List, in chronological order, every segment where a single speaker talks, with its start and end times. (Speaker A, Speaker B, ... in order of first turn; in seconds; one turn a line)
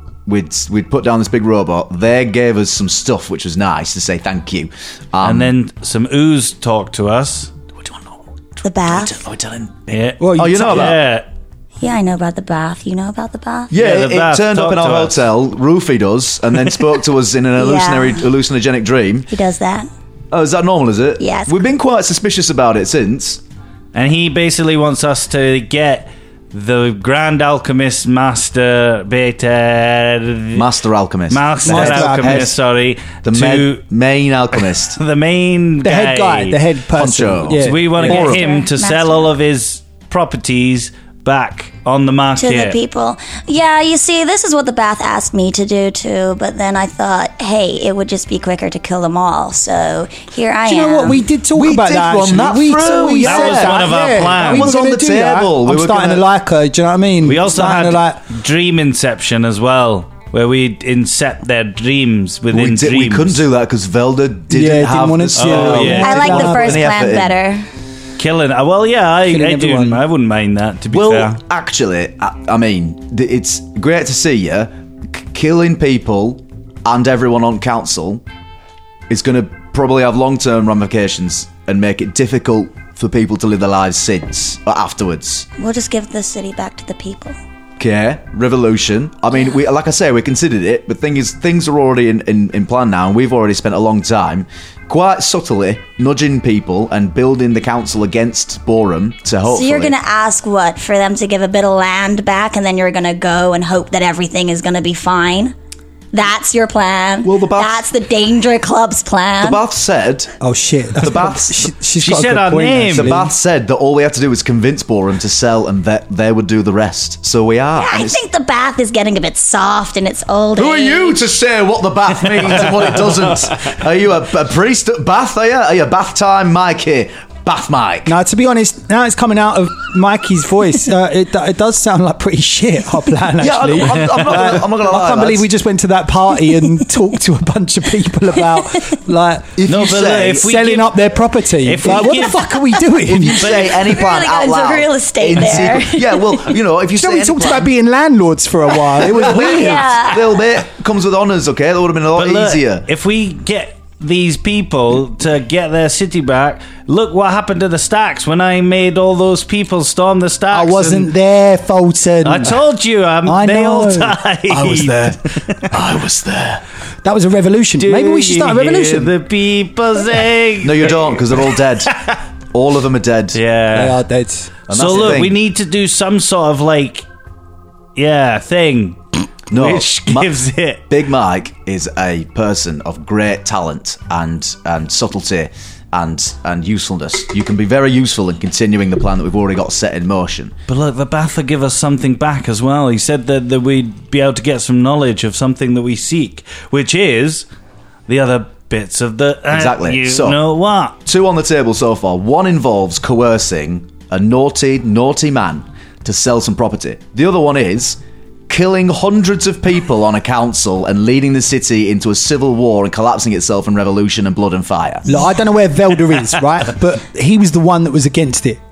Speaker A: 0.3-5.5
Speaker B: 5.2-7.5
Speaker A: 7.8-11.0
Speaker C: 8.6-9.2
Speaker B: 9.9-11.3
Speaker D: 10.2-10.9
Speaker C: 11.8-13.7
Speaker A: 13.7-19.3
Speaker B: 13.8-15.2
Speaker C: 17.6-18.3
Speaker C: 19.3-19.9
Speaker A: 20.3-23.4
Speaker C: 21.2-21.6
Speaker B: 23.9-30.7
Speaker A: 30.5-32.6
Speaker B: 31.3-33.8
Speaker D: 31.6-32.5
Speaker A: 33.2-35.0
Speaker B: 35.0-36.6
Speaker D: 35.8-38.2
Speaker A: 36.9-38.5
Speaker B: 37.5-42.8
Speaker C: 38.0-39.3
Speaker C: 42.4-51.3
Speaker D: 50.6-58.2
Speaker A: 51.5-56.3
Speaker B: 52.8-54.8
Speaker B: 57.2-63.4
Speaker A: 62.5-67.4
Speaker D: 64.5-66.8
Speaker B: 65.3-66.5
Speaker C: 66.0-67.7
Speaker B: 68.2-71.4
Speaker D: 69.2-70.0
Speaker A: 70.9-78.2
Speaker A: 79.1-85.5
Speaker C: 85.6-87.4
Speaker A: 87.8-100.0
Speaker C: 99.5-105.5
Speaker C: 106.1-109.6
Speaker A: 107.2-107.8
Speaker A: 109.4-110.3
Speaker D: 110.4-113.3
Speaker A: 111.0-111.8
Speaker B: 112.0-113.2
Speaker A: 112.9-118.2
Speaker C: 117.8-121.2
Speaker A: 120.6-128.2
Speaker D: 128.1-139.6
Speaker A: 133.4-135.5
Speaker A: 139.6-140.5
Speaker B: 139.7-141.0
Speaker D: 140.3-143.8
Speaker B: 141.6-142.8
Speaker A: 143.0-147.7
Speaker B: 143.4-143.7
Speaker C: 143.7-146.6
Speaker D: 147.0-150.0
Speaker A: 149.0-152.9
Speaker C: 149.2-150.4
Speaker B: 152.2-161.1
Speaker D: 160.5-162.6
Speaker B: 162.2-165.7
Speaker D: 163.2-164.2
Speaker A: 164.5-166.6
Speaker D: 167.0-169.2
Speaker B: 167.8-172.2
Speaker A: 170.6-171.9
Speaker A: 172.5-173.4
Speaker B: 173.3-174.0
Speaker D: 173.7-174.6
Speaker A: 174.7-175.4
Speaker B: 174.7-177.1
Speaker B: 178.0-179.0
Speaker A: 179.5-180.3
Speaker B: 179.5-180.8
Speaker A: 180.9-190.6
Speaker B: 190.7-197.5
Speaker B: 198.1-201.0
Speaker A: 199.5-200.4
Speaker A: 201.0-215.2
Speaker D: 215.1-218.6